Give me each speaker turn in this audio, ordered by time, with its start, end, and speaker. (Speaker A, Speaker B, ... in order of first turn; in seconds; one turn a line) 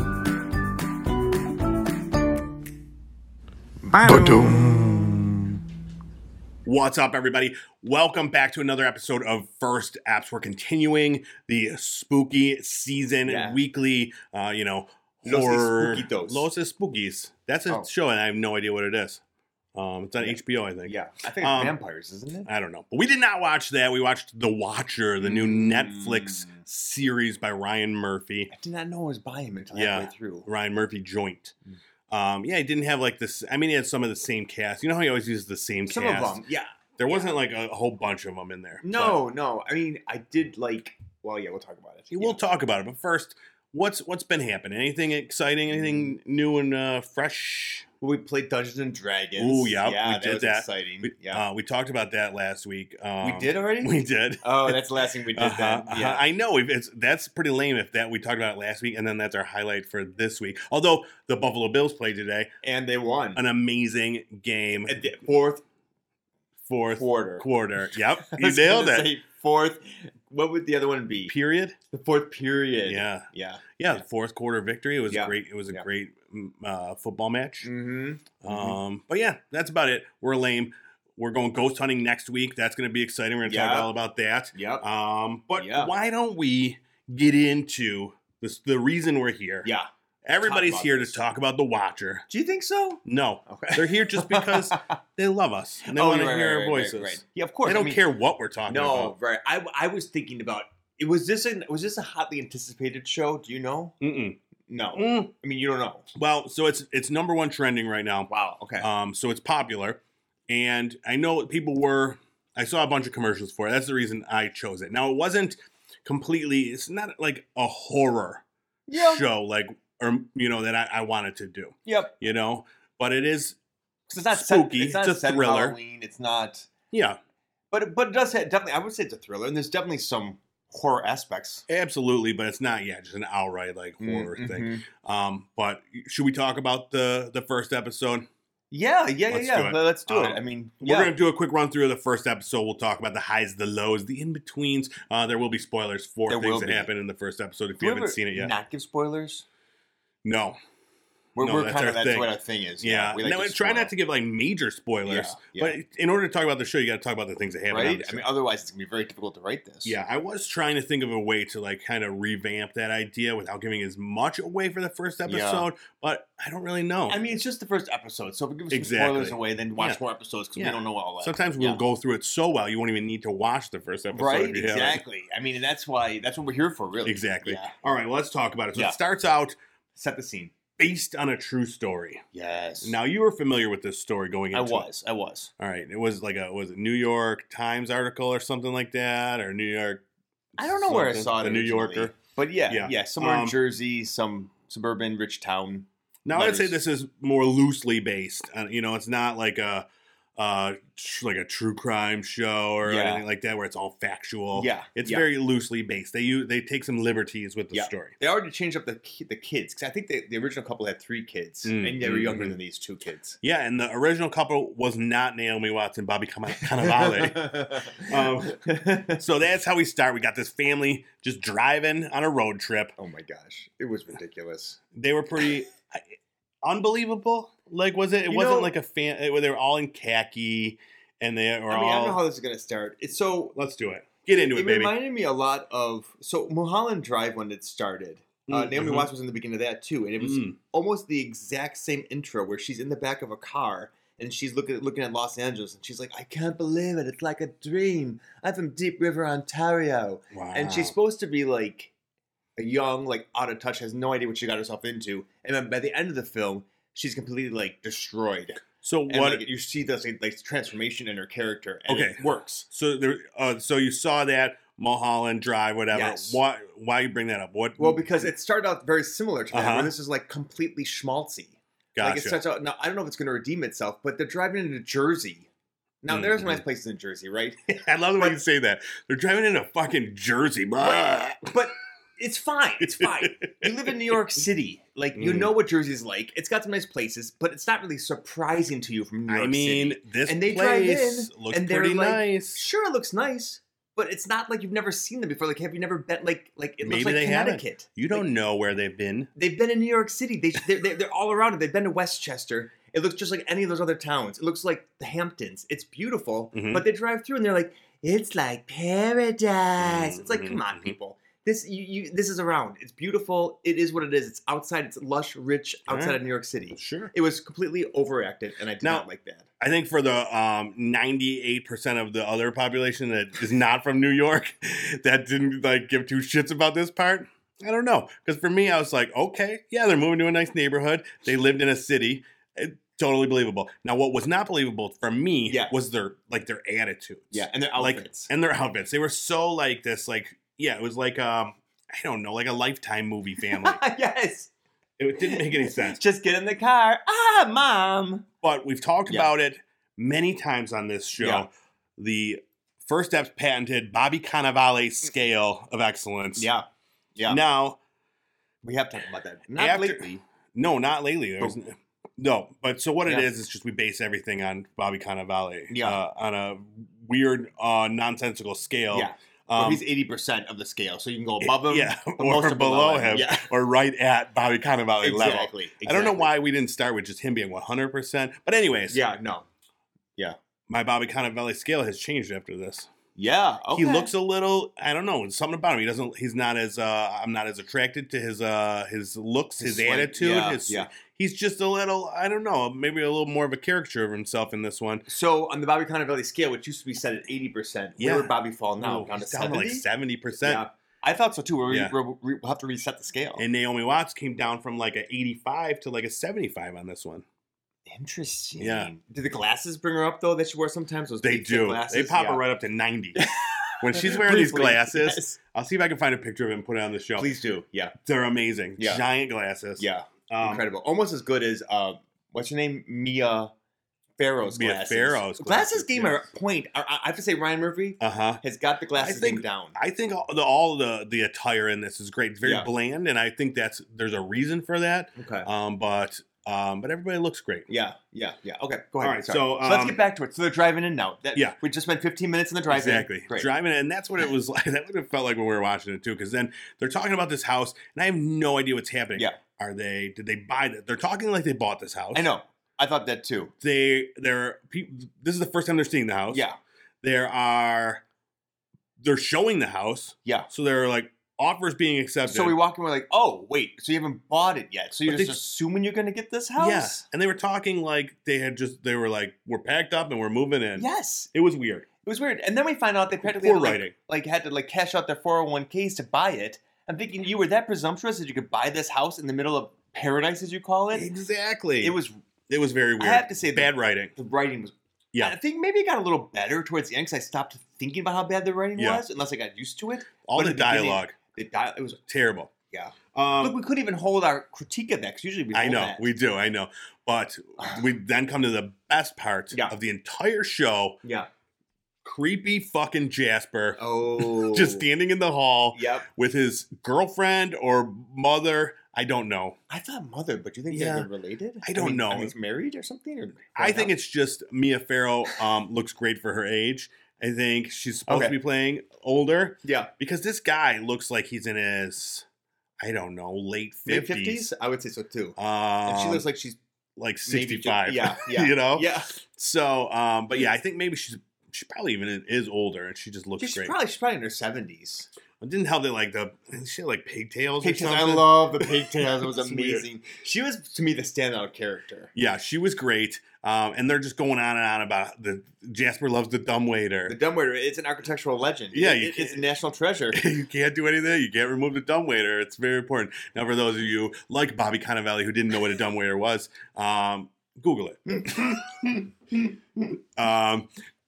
Speaker A: 3.8-5.3
Speaker B: 6.6-19.2
Speaker A: 13.2-13.6
Speaker A: 15.2-16.5
Speaker B: 19.7-21.7
Speaker A: 20.2-22.5
Speaker B: 22.4-28.5
Speaker A: 25.2-26.6
Speaker A: 28.5-30.5
Speaker B: 29.7-31.6
Speaker B: 32.1-36.4
Speaker A: 35.9-37.3
Speaker B: 37.0-39.2
Speaker A: 38.8-42.4
Speaker B: 42.1-47.9
Speaker A: 45.7-46.1
Speaker A: 48.0-51.4
Speaker B: 49.4-54.8
Speaker A: 53.2-56.2
Speaker B: 55.3-62.5
Speaker A: 62.6-63.4
Speaker B: 63.3-65.1
Speaker A: 64.9-65.6
Speaker B: 66.7-69.1
Speaker A: 67.0-67.5
Speaker A: 68.2-71.3
Speaker B: 71.2-71.8
Speaker A: 71.9-74.0
Speaker B: 72.8-77.7
Speaker A: 75.1-75.8
Speaker A: 77.6-78.8
Speaker B: 78.4-89.7
Speaker A: 83.4-83.9
Speaker A: 84.5-84.8
Speaker A: 85.5-85.9
Speaker B: 90.2-92.2
Speaker A: 90.4-91.2
Speaker A: 92.3-94.9
Speaker B: 93.0-99.1
Speaker A: 95.8-98.0
Speaker A: 98.7-103.9
Speaker B: 104.0-104.4
Speaker A: 104.7-106.1
Speaker B: 104.9-105.3
Speaker B: 106.1-123.6
Speaker A: 108.3-108.9
Speaker A: 118.9-119.2
Speaker A: 121.8-122.2
Speaker A: 124.1-126.7
Speaker B: 124.3-125.8
Speaker B: 126.9-127.2
Speaker A: 127.7-131.6
Speaker B: 131.7-138.3
Speaker A: 134.0-134.8
Speaker A: 138.7-141.1
Speaker B: 139.3-148.5
Speaker A: 146.3-146.9
Speaker A: 147.8-149.4
Speaker B: 150.2-150.6
Speaker A: 151.3-153.9
Speaker B: 151.4-158.2
Speaker A: 155.0-155.8
Speaker A: 157.7-159.9
Speaker B: 159.8-167.2
Speaker A: 165.3-165.7
Speaker A: 167.1-171.8
Speaker B: 168.7-170.0
Speaker B: 170.5-175.0
Speaker A: 174.1-177.7
Speaker B: 177.0-179.5
Speaker A: 179.9-180.5
Speaker B: 180.8-182.3
Speaker A: 182.3-182.9
Speaker B: 182.8-184.9
Speaker A: 184.5-185.5
Speaker B: 185.6-190.0
Speaker A: 190.6-196.8
Speaker B: 190.6-192.1
Speaker B: 192.7-193.5
Speaker B: 196.2-199.8
Speaker B: 200.4-208.1
Speaker A: 202.8-203.2
Speaker A: 204.6-205.3
Speaker A: 207.7-213.4
Speaker B: 211.6-212.6
Speaker B: 213.4-222.9
Speaker A: 216.6-219.2
Speaker A: 223.0-224.8
Speaker B: 224.9-226.1
Speaker B: 226.6-232.2
Speaker A: 228.3-228.7
Speaker A: 231.7-233.5
Speaker B: 233.5-234.9
Speaker A: 234.5-251.9
Speaker B: 238.5-239.1
Speaker B: 240.2-240.6
Speaker B: 250.3-250.9
Speaker A: 252.6-262.6
Speaker B: 258.8-259.4
Speaker B: 261.9-268.3
Speaker A: 265.9-266.4
Speaker A: 267.8-275.5
Speaker B: 269.5-269.9
Speaker B: 271.9-272.4
Speaker A: 276.0-277.6
Speaker B: 276.1-276.6
Speaker B: 277.7-281.5
Speaker A: 280.8-298.2
Speaker B: 283.0-284.1
Speaker B: 285.1-285.5
Speaker B: 289.3-292.7
Speaker B: 296.8-299.3
Speaker A: 299.4-319.4
Speaker B: 306.5-306.8
Speaker B: 309.8-310.9
Speaker B: 315.9-316.2
Speaker B: 316.8-317.1
Speaker B: 318.8-319.1
Speaker B: 319.6-343.8
Speaker A: 335.5-335.7
Speaker A: 337.3-338.3
Speaker A: 343.4-344.5
Speaker B: 345.0-346.0
Speaker A: 345.2-348.2
Speaker B: 348.4-356.5
Speaker A: 351.2-351.5
Speaker A: 356.4-357.4
Speaker B: 357.2-357.8
Speaker A: 358.6-360.2
Speaker B: 359.6-369.8
Speaker A: 363.0-363.3
Speaker A: 365.7-366.0
Speaker A: 368.9-373.5
Speaker B: 371.4-379.0
Speaker A: 375.0-376.3
Speaker A: 378.9-379.4
Speaker B: 380.7-382.9
Speaker A: 383.1-384.1
Speaker B: 383.7-395.1
Speaker A: 389.6-390.9
Speaker A: 395.1-399.8
Speaker B: 398.0-400.6
Speaker A: 400.4-403.4
Speaker B: 401.7-401.9
Speaker B: 403.4-407.2
Speaker A: 407.9-412.4
Speaker B: 408.6-408.9
Speaker B: 411.2-413.3
Speaker A: 413.1-415.4
Speaker B: 413.8-417.3
Speaker A: 417.2-417.9
Speaker B: 418.0-420.6
Speaker A: 418.8-419.0
Speaker A: 419.8-423.5
Speaker A: 424.2-429.8
Speaker B: 424.5-426.3
Speaker B: 428.0-428.4
Speaker B: 429.0-437.7
Speaker A: 432.4-432.7
Speaker A: 435.2-435.5
Speaker A: 437.7-443.5
Speaker B: 439.0-440.0
Speaker B: 442.7-452.3
Speaker A: 452.1-453.5
Speaker B: 453.6-456.4
Speaker A: 456.3-456.6
Speaker B: 457.0-458.0
Speaker B: 459.0-462.6
Speaker A: 462.2-467.0
Speaker B: 465.1-465.4
Speaker B: 466.6-471.9
Speaker A: 470.8-471.3
Speaker A: 472.0-481.1
Speaker B: 473.2-473.9
Speaker B: 480.9-482.0
Speaker A: 481.8-482.1
Speaker B: 482.5-484.1
Speaker A: 483.0-492.0
Speaker B: 488.8-489.0
Speaker B: 490.2-491.1
Speaker B: 492.1-492.5
Speaker A: 492.7-496.1
Speaker B: 493.1-493.6
Speaker B: 495.5-501.0
Speaker A: 501.0-501.3
Speaker B: 502.0-509.6
Speaker A: 503.8-504.9
Speaker A: 505.7-506.1
Speaker A: 509.7-513.9
Speaker B: 510.7-511.1
Speaker B: 511.6-512.3
Speaker B: 513.5-522.2
Speaker A: 518.1-518.4
Speaker A: 519.6-519.9
Speaker B: 522.8-524.5
Speaker A: 523.9-526.6
Speaker B: 525.4-526.2
Speaker B: 527.0-533.7
Speaker A: 527.2-529.1
Speaker A: 533.4-535.1
Speaker B: 535.4-539.9
Speaker A: 537.6-542.1
Speaker B: 542.1-547.1
Speaker A: 547.1-550.2
Speaker B: 548.7-549.5
Speaker B: 550.1-558.7
Speaker A: 558.1-559.8
Speaker B: 560.1-560.7